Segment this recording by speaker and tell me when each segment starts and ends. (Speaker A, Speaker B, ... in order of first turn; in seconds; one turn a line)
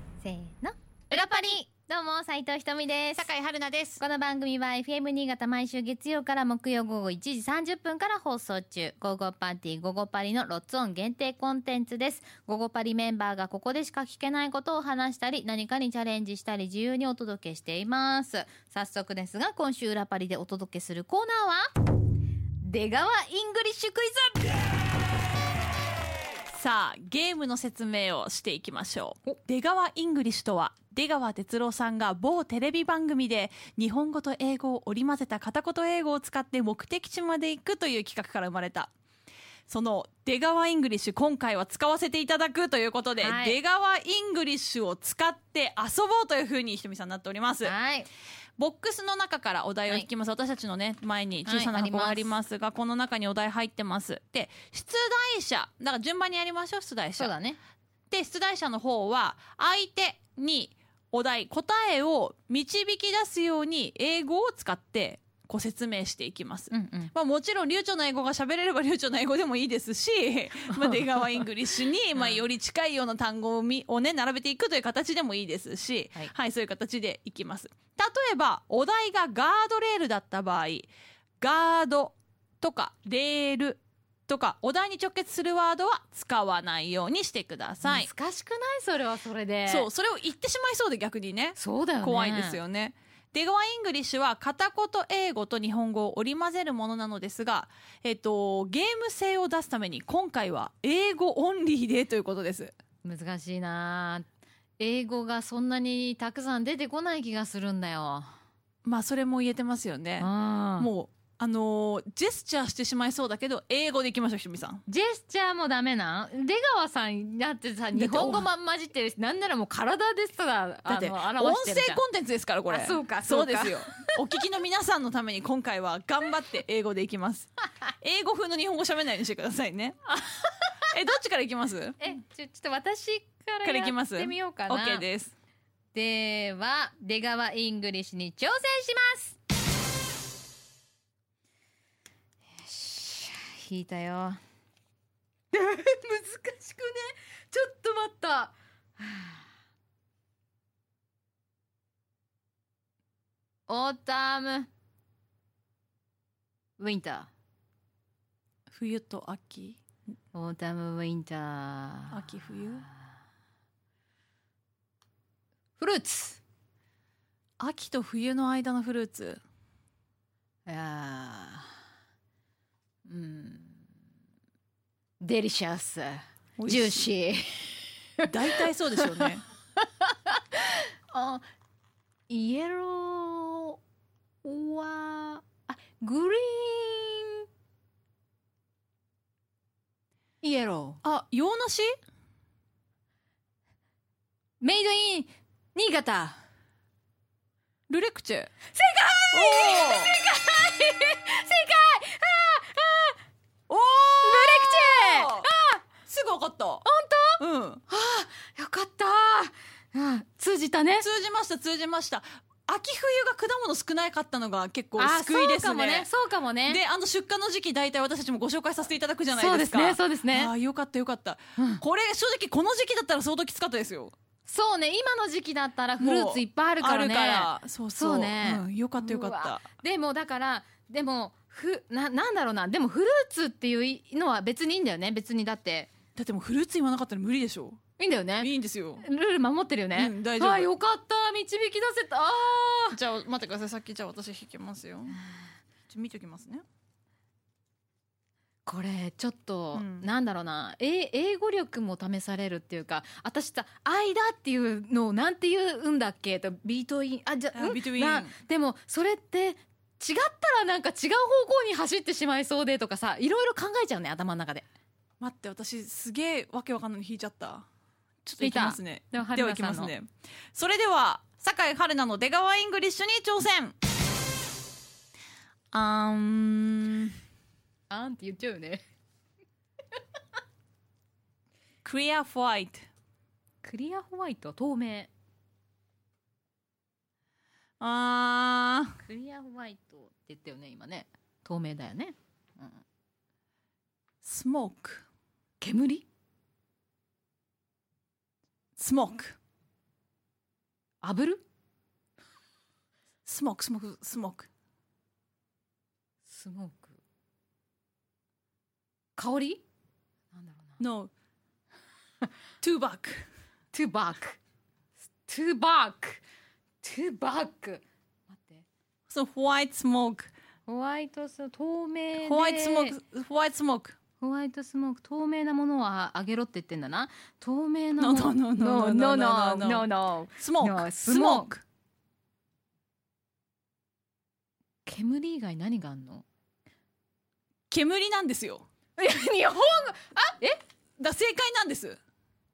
Speaker A: 0.2-3.3
Speaker B: 1.1-1.6
Speaker B: 3.2-4.0
Speaker A: 4.0-21.7
Speaker A: 22.6-24.5
Speaker B: 26.5-38.9
Speaker B: 39.7-47.7
Speaker A: 43.2-43.6
Speaker A: 47.6-48.1
Speaker B: 48.6-57.3
Speaker A: 51.5-52.4
Speaker A: 57.2-57.6
Speaker B: 58.1-88.1
Speaker A: 66.7-67.1
Speaker A: 87.8-89.9
Speaker B: 89.7-102.7
Speaker A: 91.6-92.6
Speaker A: 103.0-104.3
Speaker A: 104.8-108.3
Speaker B: 108.8-114.8
Speaker A: 110.2-110.9
Speaker A: 114.9-122.0
Speaker B: 117.9-118.5
Speaker B: 120.9-130.0
Speaker A: 122.7-124.1
Speaker A: 130.1-130.9
Speaker B: 130.9-132.0
Speaker A: 132.0-135.1
Speaker B: 133.6-135.3
Speaker A: 135.9-139.4
Speaker A: 142.6-144.4
Speaker A: 145.5-149.4
Speaker A: 153.7-154.7
Speaker A: 156.8-157.3
Speaker B: 158.7-159.8
Speaker A: 160.3-162.9
Speaker B: 162.1-162.9
Speaker A: 165.8-166.4
Speaker B: 167.6-169.4
Speaker A: 170.7-171.7
Speaker A: 173.1-173.8
Speaker A: 175.2-178.3
Speaker B: 176.6-177.0
Speaker B: 178.2-179.4
Speaker A: 179.0-181.4
Speaker A: 182.3-183.8
Speaker A: 184.4-187.5
Speaker A: 190.4-191.0
Speaker B: 191.0-191.9
Speaker A: 194.6-196.4
Speaker B: 197.9-198.5
Speaker A: 198.7-203.2
Speaker B: 199.3-200.1
Speaker B: 203.7-205.5
Speaker A: 204.2-205.8
Speaker B: 206.1-206.8
Speaker A: 206.8-211.1
Speaker B: 207.4-207.8
Speaker B: 211.0-216.1
Speaker A: 215.0-216.8
Speaker B: 216.7-224.1
Speaker A: 219.3-220.5
Speaker A: 221.6-221.8
Speaker A: 224.4-235.9
Speaker B: 226.0-229.7
Speaker B: 236.2-237.8
Speaker A: 238.0-243.0
Speaker B: 238.4-239.0
Speaker B: 239.9-240.7
Speaker B: 242.9-245.2
Speaker B: 245.9-246.6
Speaker A: 248.6-264.7
Speaker B: 249.7-250.1
Speaker B: 257.5-258.3
Speaker B: 265.2-267.7
Speaker B: 268.2-273.8
Speaker A: 268.4-269.9
Speaker B: 275.7-277.1
Speaker A: 277.9-278.8
Speaker B: 281.8-282.9
Speaker A: 283.6-285.1
Speaker B: 287.8-289.0
Speaker A: 289.0-292.8
Speaker B: 294.2-295.1
Speaker A: 295.6-296.0
Speaker B: 298.8-299.4
Speaker A: 301.0-301.4
Speaker B: 303.2-304.5
Speaker A: 306.2-307.0
Speaker A: 309.1-309.6
Speaker A: 310.3-310.8
Speaker B: 310.8-311.1
Speaker B: 312.6-313.2
Speaker A: 313.7-314.4
Speaker A: 315.2-316.2
Speaker A: 316.8-318.6
Speaker B: 319.1-320.3
Speaker A: 320.7-323.0
Speaker B: 322.2-324.0
Speaker A: 324.2-331.5
Speaker B: 328.0-331.6
Speaker A: 334.9-336.2
Speaker B: 337.7-338.6
Speaker A: 339.0-340.6
Speaker B: 341.0-342.0